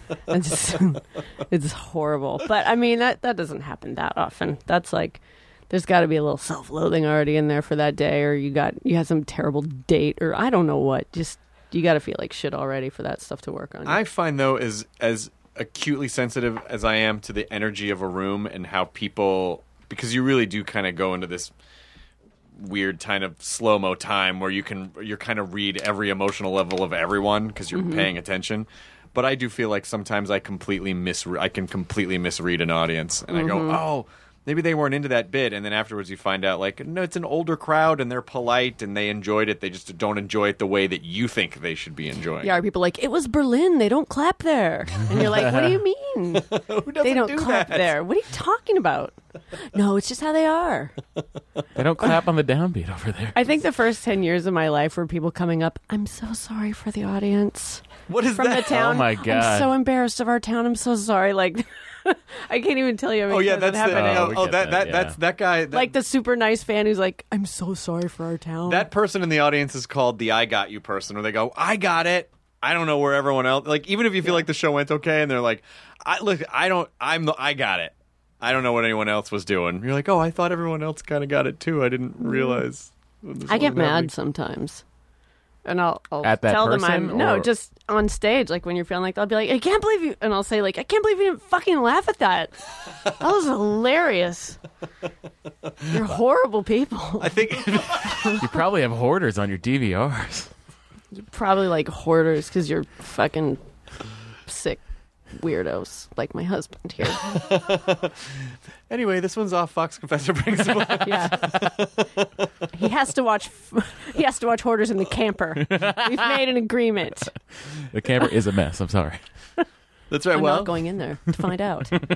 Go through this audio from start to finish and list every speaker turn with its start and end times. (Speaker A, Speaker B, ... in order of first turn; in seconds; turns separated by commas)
Speaker A: 0.3-14.0, Speaker B: 13.8-21.5, Speaker B: 22.6-42.5, Speaker A: 27.7-28.1, Speaker A: 33.3-33.8, Speaker A: 42.4-50.9, Speaker B: 46.3-47.9, Speaker C: 51.7-53.4, Speaker A: 53.3-64.4, Speaker B: 58.1-58.9, Speaker C: 58.7-59.7, Speaker B: 63.3-65.9, Speaker C: 63.9-65.2, Speaker A: 65.7-68.9, Speaker B: 68.7-84.1, Speaker A: 74.2-74.5, Speaker A: 82.2-82.6, Speaker A: 83.5-84.8, Speaker A: 85.7-92.6, Speaker C: 86.2-87.5, Speaker A: 93.1-94.6, Speaker A: 95.8-97.4, Speaker B: 97.2-98.4, Speaker C: 98.4-100.5, Speaker A: 101.1-103.6, Speaker A: 104.5-107.3, Speaker B: 107.2-108.1, Speaker B: 108.9-112.5, Speaker A: 111.0-111.6, Speaker A: 112.7-117.3, Speaker C: 115.7-116.0, Speaker C: 117.8-119.2, Speaker B: 120.1-120.7, Speaker A: 120.3-122.0